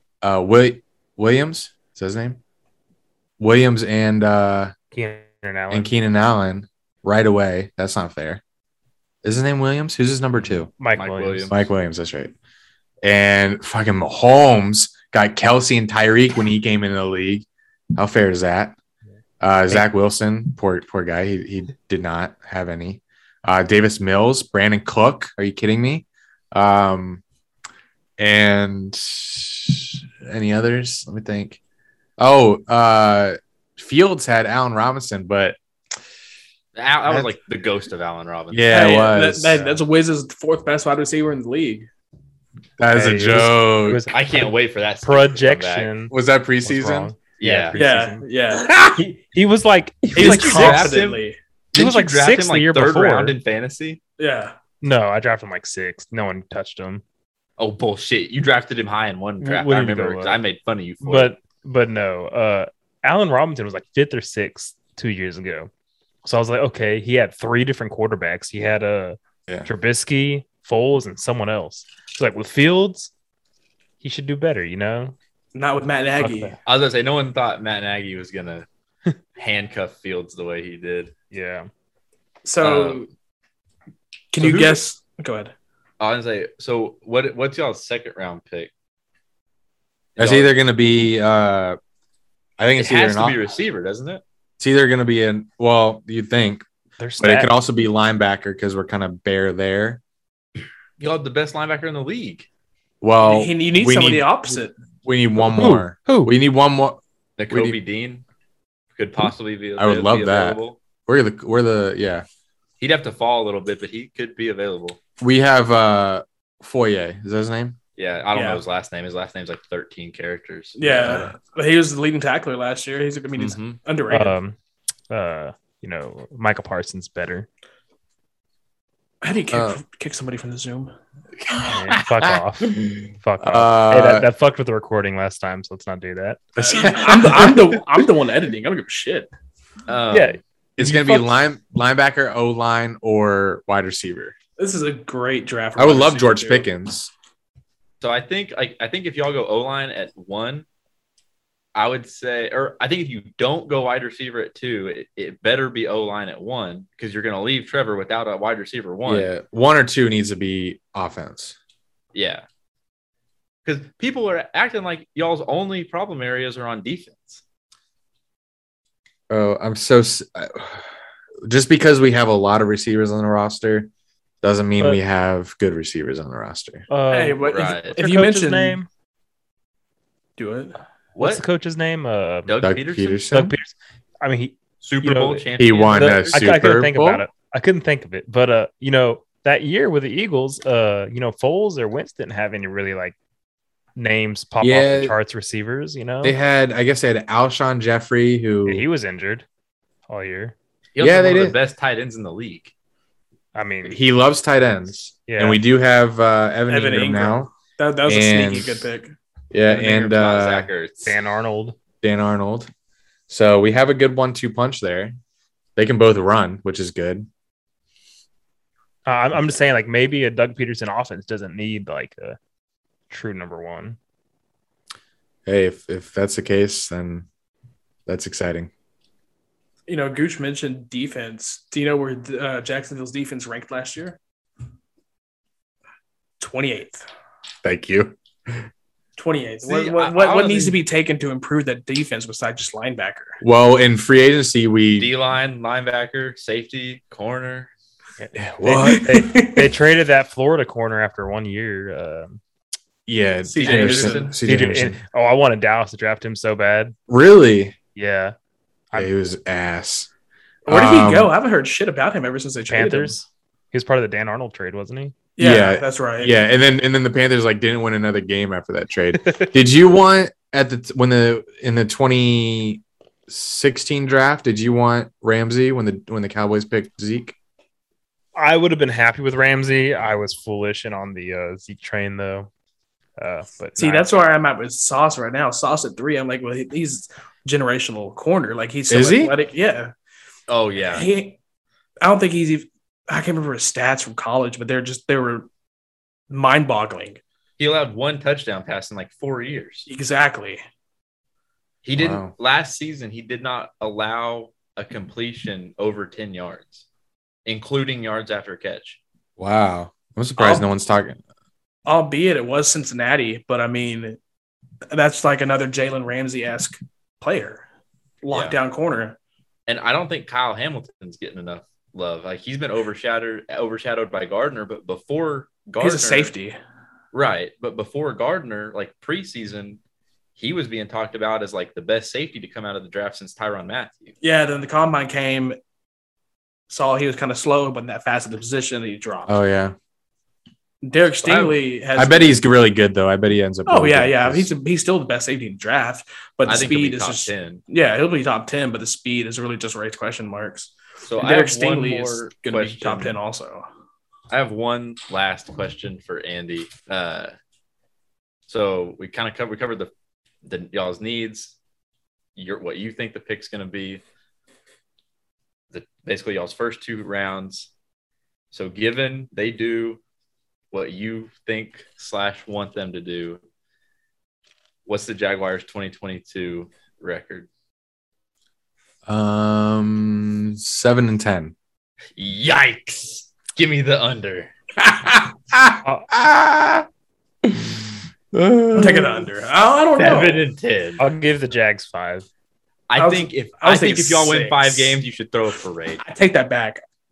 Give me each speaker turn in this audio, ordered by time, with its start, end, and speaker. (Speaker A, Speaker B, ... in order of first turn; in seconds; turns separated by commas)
Speaker A: 0.2-2.4, Speaker A: 3.4-4.7, Speaker B: 4.9-5.9, Speaker A: 5.7-8.4, Speaker A: 9.2-10.7, Speaker B: 10.8-11.5, Speaker C: 10.9-11.6, Speaker A: 11.5-12.3, Speaker A: 13.0-18.7, Speaker A: 19.4-27.2, Speaker A: 28.2-31.6, Speaker A: 32.2-35.6, Speaker C: 36.7-38.7, Speaker A: 38.5-39.7, Speaker D: 38.7-41.9, Speaker A: 42.8-44.0, Speaker B: 42.9-48.2, Speaker C: 44.1-45.9, Speaker A: 46.1-47.1, Speaker C: 47.4-47.8, Speaker D: 47.7-48.7, Speaker A: 48.7-49.0, Speaker B: 48.8-50.9, Speaker D: 50.1-51.4, Speaker C: 50.1-54.0, Speaker B: 51.7-53.4, Speaker D: 54.2-54.5, Speaker B: 54.8-57.0, Speaker C: 57.6-61.3, Speaker B: 59.4-60.4, Speaker B: 61.0-65.7, Speaker B: 66.2-73.1, Speaker B: 74.0-75.1, Speaker D: 75.5-76.5, Speaker B: 76.2-76.6, Speaker C: 76.6-78.7, Speaker C: 79.4-81.1, Speaker B: 81.3-81.7, Speaker D: 82.4-83.1, Speaker C: 82.6-83.1, Speaker D: 84.3-85.5, Speaker C: 84.4-84.8, Speaker C: 86.0-88.7, Speaker C: 90.2-90.6, Speaker A: 90.2-91.8, Speaker A: 92.6-93.4, Speaker C: 92.8-94.2, Speaker A: 94.6-96.6, Speaker B: 97.0-97.5, Speaker A: 97.2-100.0, Speaker C: 101.0-102.5, Speaker A: 103.0-107.8, Speaker D: 103.2-104.7, Speaker B: 105.5-106.3, Speaker C: 107.4-108.2, Speaker C: 108.9-110.8, Speaker A: 109.8-112.2, Speaker C: 112.8-115.0, Speaker A: 115.2-117.8, Speaker C: 118.0-120.8, Speaker D: 118.3-118.6, Speaker D: 120.8-124.3, Speaker A: 120.8-121.3, Speaker C: 123.4-123.8, Speaker B: 124.1-124.5, Speaker B: 125.1-127.5, Speaker D: 129.2-130.9, Speaker A: 129.5-129.8, Speaker A: 131.4-134.3, Speaker B: 131.7-136.4, Speaker A: 136.6-137.8, Speaker D: 136.6-139.3, Speaker C: 139.9-140.4, Speaker B: 140.1-141.4, Speaker A: 140.8-144.3, Speaker D: 144.6-146.7, Speaker A: 145.8-147.1, Speaker C: 148.0-150.7, Speaker C: 151.7-159.3, Speaker A: 159.1-161.6, Speaker C: 162.1-162.4, Speaker C: 163.6-167.4, Speaker A: 169.3-170.9, Speaker A: 171.4-173.9, Speaker A: 174.4-176.9, Speaker B: 176.9-178.9, Speaker D: 177.1-178.8, Speaker C: 177.5-178.0, Speaker D: 180.4-180.8, Speaker C: 181.1-181.4, Speaker B: 181.2-182.5, Speaker C: 182.5-183.2, Speaker A: 182.6-183.5, Speaker B: 183.3-193.1, Speaker C: 184.8-186.5, Speaker A: 185.6-187.2, Speaker B: 193.9-196.3, Speaker A: 194.6-195.1, Speaker A: 196.2-198.8, Speaker B: 198.7-199.4, Speaker B: 200.1-200.5, Speaker C: 200.9-202.7, Speaker A: 201.0-201.6, Speaker B: 203.5-204.0, Speaker A: 203.9-207.5, Speaker B: 205.3-205.6, Speaker D: 206.7-209.1, Speaker A: 208.1-208.9, Speaker A: 209.5-210.7, Speaker D: 209.7-210.1, Speaker C: 209.9-211.2, Speaker B: 211.1-211.8, Speaker A: 212.0-212.7, Speaker A: 213.3-215.2, Speaker A: 215.8-217.3, Speaker B: 219.1-222.4, Speaker B: 223.1-224.0, Speaker A: 225.4-227.2, Speaker A: 228.1-228.7, Speaker D: 229.9-234.2, Speaker D: 236.4-237.1, Speaker A: 237.6-238.7, Speaker D: 239.2-243.4, Speaker C: 239.6-240.8, Speaker A: 243.4-245.1, Speaker C: 245.0-247.7, Speaker B: 248.2-252.4, Speaker A: 248.3-249.0, Speaker D: 248.6-249.7, Speaker A: 253.1-255.0, Speaker D: 253.5-254.3, Speaker C: 253.6-254.4, Speaker B: 254.4-256.9, Speaker A: 257.1-257.7, Speaker B: 257.9-258.3, Speaker A: 258.9-260.1, Speaker D: 260.6-263.1, Speaker A: 260.7-261.3, Speaker B: 262.7-265.1, Speaker D: 265.4-266.4, Speaker A: 265.4-277.3, Speaker B: 278.3-282.5, Speaker B: 283.2-284.1, Speaker D: 283.8-289.9, Speaker A: 288.9-289.3, Speaker C: 290.5-291.1, Speaker D: 290.9-291.4, Speaker D: 292.0-295.5, Speaker D: 296.3-297.2, Speaker C: 297.6-299.9, Speaker D: 299.9-300.6, Speaker C: 301.8-306.9, Speaker A: 301.9-302.3, Speaker C: 307.4-309.0, Speaker A: 309.4-311.2, Speaker D: 310.4-310.6, Speaker D: 311.9-314.2, Speaker D: 314.9-317.6, Speaker D: 318.2-319.2, Speaker C: 318.3-318.6, Speaker C: 319.7-326.3, Speaker D: 325.8-326.6, Speaker C: 327.1-329.8, Speaker C: 330.4-334.1, Speaker D: 334.2-335.6, Speaker D: 336.7-339.4, Speaker A: 339.3-339.7, Speaker D: 340.8-342.4, Speaker C: 341.2-341.6, Speaker A: 341.9-344.5, Speaker D: 343.7-353.6, Speaker C: 346.4-347.6, Speaker C: 351.0-353.2, Speaker C: 354.3-357.3, Speaker C: 358.5-359.9, Speaker C: 360.4-361.6, Speaker C: 362.4-364.0, Speaker C: 365.7-367.7, Speaker C: 368.5-370.0, Speaker C: 370.7-373.4, Speaker C: 374.9-377.5, Speaker A: 379.1-381.5, Speaker C: 382.2-384.5, Speaker A: 384.8-386.9, Speaker A: 387.4-387.8, Speaker A: 388.3-389.2, Speaker D: 388.7-390.4, Speaker C: 389.9-391.0, Speaker B: 391.0-392.2, Speaker C: 392.9-396.0, Speaker D: 393.0-395.0, Speaker D: 396.0-396.8